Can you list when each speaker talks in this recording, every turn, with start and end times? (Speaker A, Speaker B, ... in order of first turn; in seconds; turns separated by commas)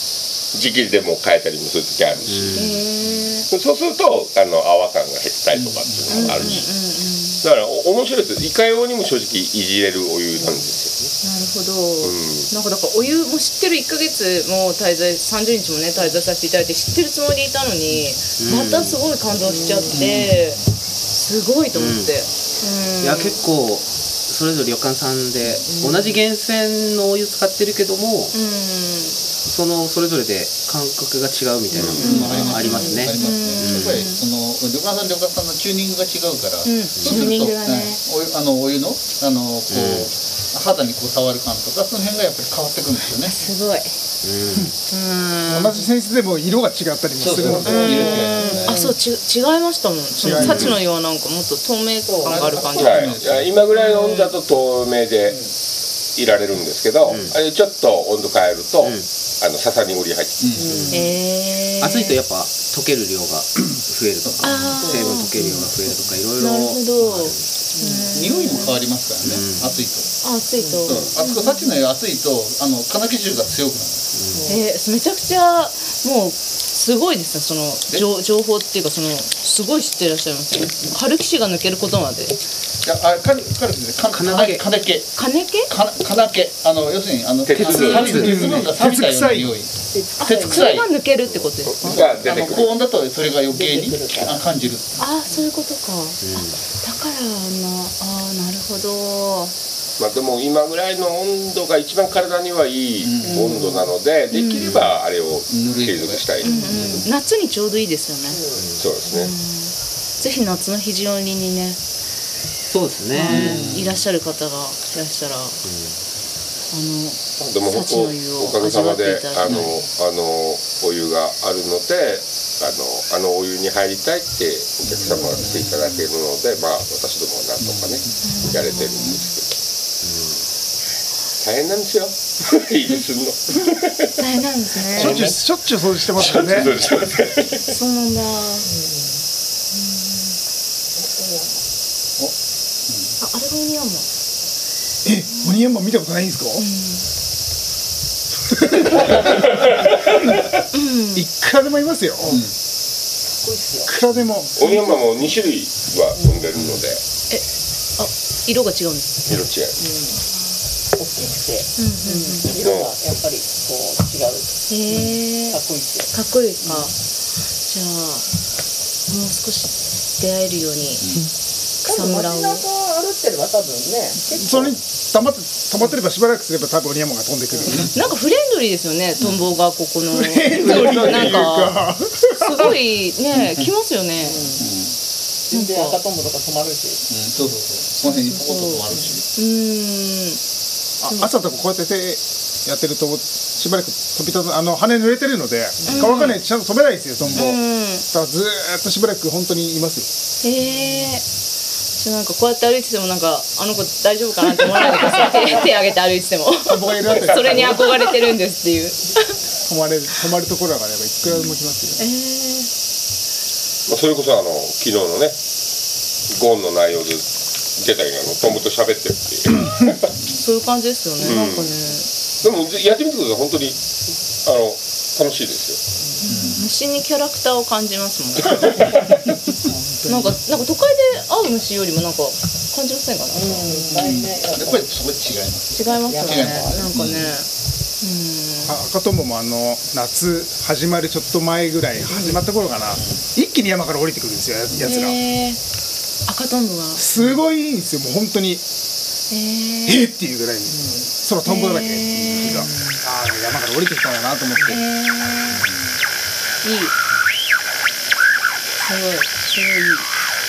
Speaker A: 0.5-2.6, Speaker B: 2.2-2.8, Speaker C: 2.5-3.5, Speaker A: 3.5-6.7, Speaker D: 5.5-6.7, Speaker C: 6.1-7.4, Speaker A: 7.4-10.9, Speaker E: 10.3-10.7, Speaker C: 11.2-23.4, Speaker A: 12.0-12.5, Speaker B: 18.4-19.0, Speaker E: 19.4-20.1, Speaker D: 19.9-20.6, Speaker B: 21.7-22.1, Speaker B: 23.0-28.3, Speaker E: 25.8-26.1, Speaker C: 28.3-29.2, Speaker B: 29.4-34.1, Speaker C: 31.7-34.2, Speaker A: 31.7-32.1, Speaker D: 32.0-43.4, Speaker C: 36.6-38.0, Speaker B: 39.7-40.1, Speaker C: 43.4-43.9, Speaker B: 44.2-44.7, Speaker C: 44.9-45.8, Speaker F: 45.5-48.3, Speaker D: 47.2-48.8, Speaker C: 47.6-54.3, Speaker E: 48.3-48.9, Speaker F: 50.2-50.8, Speaker B: 50.3-50.8, Speaker E: 52.0-52.8, Speaker D: 52.2-53.6, Speaker A: 52.8-55.4, Speaker E: 55.2-55.5, Speaker A: 56.1-60.5, Speaker B: 57.0-57.3, Speaker D: 60.4-60.8, Speaker E: 60.5-61.1, Speaker B: 60.6-61.0, Speaker C: 60.9-62.2, Speaker B: 61.8-67.4, Speaker C: 64.4-65.3, Speaker E: 64.8-66.1, Speaker C: 66.4-68.8, Speaker E: 67.7-68.1, Speaker D: 68.1-70.3, Speaker B: 69.2-69.8, Speaker C: 70.2-71.8, Speaker E: 70.5-70.9, Speaker D: 70.8-74.1, Speaker B: 74.1-74.5, Speaker E: 74.3-74.6, Speaker C: 74.5-82.4, Speaker D: 82.8-90.9, Speaker B: 84.1-84.6, Speaker C: 85.1-85.7, Speaker A: 87.5-88.2, Speaker B: 87.5-88.5, Speaker C: 87.8-88.1, Speaker F: 88.1-89.5, Speaker E: 89.9-90.7, Speaker C: 90.2-92.2, Speaker A: 91.7-92.8, Speaker D: 91.8-95.0, Speaker E: 91.9-92.4, Speaker E: 93.5-94.5, Speaker C: 95.0-99.5, Speaker B: 96.2-96.6, Speaker A: 100.0-106.6, Speaker D: 103.0-103.5, Speaker E: 103.2-103.9, Speaker C: 104.3-104.9, Speaker D: 105.5-107.1, Speaker C: 106.4-108.4, Speaker B: 106.6-107.0, Speaker E: 108.3-108.6, Speaker B: 108.5-108.8, Speaker A: 108.8-109.3, Speaker C: 109.1-111.8, Speaker B: 112.7-113.7, Speaker C: 113.1-115.6, Speaker D: 113.2-114.0, Speaker B: 115.6-116.0, Speaker C: 116.7-119.7, Speaker A: 117.4-129.5, Speaker D: 119.4-119.7, Speaker D: 124.9-126.1, Speaker D: 127.6-128.4, Speaker C: 128.2-129.2, Speaker B: 130.0-130.4, Speaker A: 131.4-134.2, Speaker C: 134.2-135.3, Speaker F: 134.9-136.7, Speaker A: 134.9-135.3, Speaker A: 136.1-137.7, Speaker C: 137.7-138.7, Speaker E: 138.7-139.1, Speaker C: 139.7-140.3, Speaker E: 141.0-141.6, Speaker D: 142.9-143.1, Speaker C: 143.2-144.1, Speaker F: 145.0-146.6, Speaker C: 146.5-147.1, Speaker C: 150.7-151.2, Speaker F: 151.1-152.4, Speaker D: 152.3-152.5, Speaker E: 153.4-153.9, Speaker F: 153.8-154.5, Speaker A: 154.6-157.0, Speaker E: 154.6-155.3, Speaker E: 156.1-156.5, Speaker C: 158.0-159.3, Speaker A: 159.3-159.8, Speaker E: 159.8-160.2, Speaker C: 160.2-160.5, Speaker E: 160.9-166.9, Speaker C: 161.8-162.5, Speaker A: 162.6-162.9, Speaker C: 164.7-165.6, Speaker C: 166.1-166.9, Speaker C: 167.7-168.2, Speaker C: 169.1-171.1, Speaker C: 171.8-172.6, Speaker E: 171.8-174.5, Speaker F: 174.3-177.9, Speaker C: 177.9-181.8, Speaker F: 180.1-182.8, Speaker A: 180.6-181.4, Speaker C: 182.3-184.5, Speaker D: 183.3-183.7, Speaker E: 184.2-184.6, Speaker D: 184.6-184.9, Speaker E: 185.5-187.1, Speaker C: 185.5-186.0, Speaker D: 187.1-189.2, Speaker C: 188.0-190.4, Speaker F: 191.0-200.1, Speaker E: 195.8-196.3, Speaker C: 195.8-196.4, Speaker D: 197.2-197.5, Speaker C: 197.3-198.1, Speaker C: 200.4-201.2, Speaker C: 202.0-209.3, Speaker F: 206.7-208.1, Speaker A: 207.2-207.6, Speaker F: 209.7-212.0, Speaker C: 212.0-212.7, Speaker A: 213.9-215.3, Speaker A: 216.3-217.2, Speaker A: 217.8-220.1, Speaker C: 220.3-222.1, Speaker A: 221.2-221.7, Speaker A: 222.4-223.8, Speaker A: 224.4-225.8, Speaker C: 226.2-229.2, Speaker D: 226.3-226.6, Speaker D: 229.6-230.3, Speaker C: 230.1-233.8, Speaker E: 233.3-234.9, Speaker D: 233.7-237.3, Speaker C: 235.7-237.5, Speaker E: 235.8-236.7, Speaker C: 238.0-238.8, Speaker F: 238.6-245.2, Speaker E: 242.1-242.4, Speaker C: 244.8-245.6, Speaker C: 246.2-247.0, Speaker F: 246.9-248.6, Speaker C: 249.3-250.1, Speaker F: 249.8-254.8, Speaker E: 250.7-251.1, Speaker C: 251.4-252.7, Speaker C: 254.7-255.7, Speaker C: 256.6-256.9, Speaker C: 258.8-260.1